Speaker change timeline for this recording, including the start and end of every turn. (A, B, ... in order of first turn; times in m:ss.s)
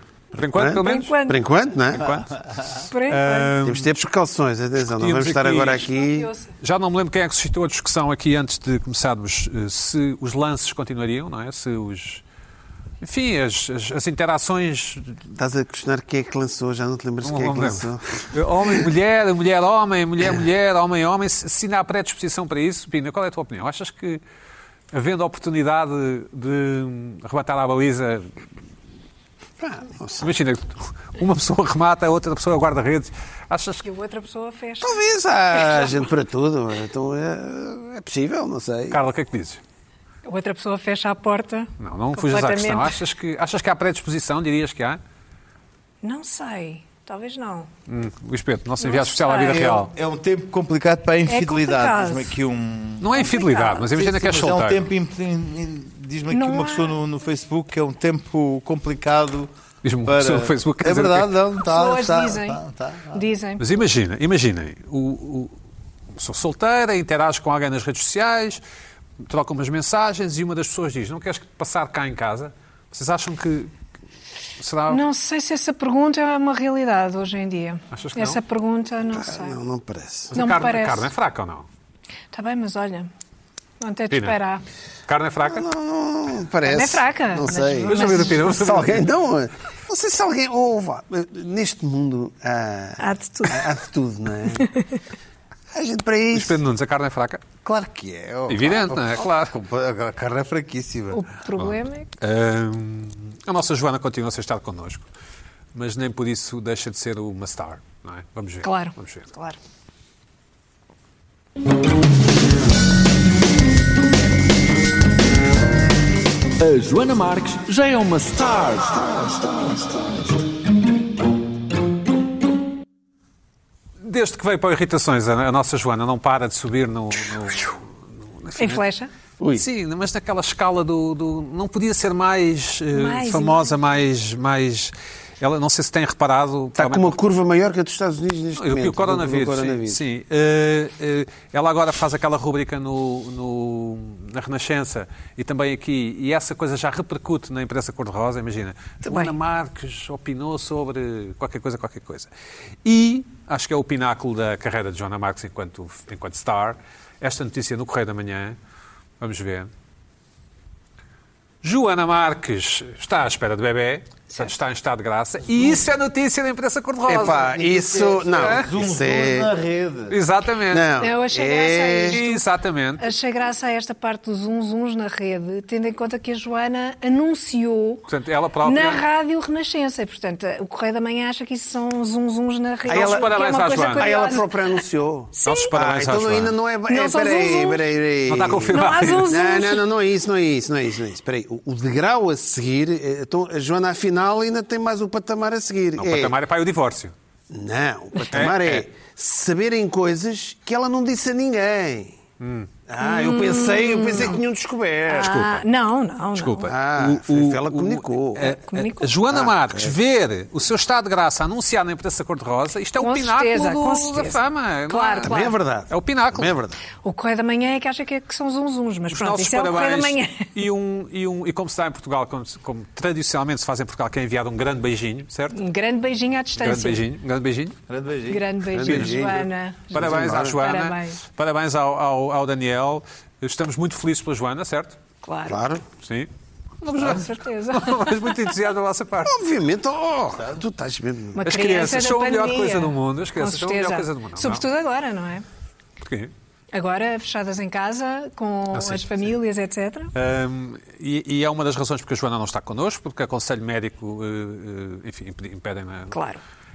0:00.3-0:01.2 A
0:00.6-0:02.2 B
0:00.7-0:01.4 C
0:02.0-0:04.0 A
0:02.9-0:03.6 C
0:03.6-0:06.3 B
0:04.8-0:05.9 A
0:05.9-0:06.5 C
0:06.6-0:12.2 A
0:13.0-0:15.2 A
0:15.3-0:18.3 B
0:17.2-0:24.2 A
0:24.9-0:28.3 A
0:29.6-0:30.3 B
0:30.2-0:33.9 A
0:33.8-0:35.0 C
0:34.8-0:39.0 B
0:35.6-0:35.8 C
0:38.9-0:39.6 A
0:40.2-0:43.0 C
0:41.8-0:45.0 A
0:46.0-0:47.7 C
0:47.9-0:49.9 A
0:48.8-0:49.7 C
0:49.4-0:59.5 D
0:51.3-0:52.4 C
0:53.0-0:54.9 A
0:53.2-0:53.9 C
0:56.3-0:57.0 C
0:59.8-1:01.4 A
1:00.0-1:03.2 D
1:01.6-1:03.7 C
1:03.6-1:05.6 A
1:06.2-1:08.6 A
1:09.2-1:13.7 A
1:14.6-1:15.0 A
1:14.9-1:19.6 C
1:17.9-1:18.4 A
1:19.1-1:20.4 B
1:20.3-1:21.7 A
1:20.4-1:21.1 C
1:22.3-1:23.1 C
1:23.8-1:24.6 C
1:24.1-1:24.4 A
1:25.1-1:25.7 A
1:25.5-1:34.7 B
1:26.6-1:28.6 C
1:27.9-1:29.1 A
1:33.0-1:33.7 C
1:34.6-1:35.0 C
1:35.7-1:36.6 B
1:36.3-1:37.4 A
1:37.6-1:41.2 D
1:38.5-1:39.6 A
1:41.1-1:42.1 C
1:41.6-1:45.1 A
1:45.8-1:49.3 A
1:48.6-1:49.6 C
1:56.6-1:59.4 E
2:04.0-2:07.8 A
2:08.4-2:08.8 A
2:08.6-2:09.1 C
2:09.4-2:09.6 B
2:09.6-2:17.2 A
2:12.9-2:13.7 C
2:16.8-2:20.0 B
2:18.6-2:32.3 A
2:29.0-2:29.3 C
2:32.8-2:38.6 A
2:39.2-2:39.7 A
2:41.6-2:47.6 A
2:47.1-2:49.5 B
2:47.3-2:50.2 D
2:48.4-2:48.7 A
2:50.1-2:50.9 A
2:50.7-2:52.2 B
2:51.0-2:52.4 C
2:52.1-2:53.1 A
2:53.0-2:58.1 C
2:58.1-2:59.0 A
2:58.6-3:04.6 C
3:02.9-3:04.2 A
3:02.9-3:16.4 B
3:05.3-3:05.7 C
3:05.4-3:06.6 A
3:06.9-3:07.9 C
3:08.3-3:09.4 A
3:08.7-3:09.8 C
3:16.0-3:17.1 A
3:17.5-3:22.2 B
3:18.3-3:18.8 A
3:22.4-3:22.7 A
3:22.9-3:25.4 B
3:23.0-3:24.4 C
3:25.1-3:25.6 A
3:25.1-3:26.7 C
3:26.4-3:36.6 A
3:26.7-3:28.5 B
3:28.4-3:29.1 C
3:29.3-3:29.9 B
3:33.0-3:35.6 C
3:35.2-3:36.8 B
3:37.0-3:40.5 C
3:39.1-3:45.6 A
3:45.5-3:47.0 C
3:46.6-3:47.8 A
3:47.9-3:48.4 D
3:48.3-3:51.2 C
3:48.7-3:55.0 A
3:48.7-3:50.5 B
3:55.2-3:55.6 C
3:55.5-3:55.8 B
3:56.0-3:56.3 A
3:56.8-3:59.4 A
3:56.9-3:58.3 C
3:59.2-4:01.4 B
4:01.3-4:05.4 C
4:01.4-4:04.7 A
4:06.0-4:06.3 A
4:06.7-4:10.1 C
4:08.7-4:09.3 A
4:10.1-4:16.2 A
4:16.1-4:16.4 C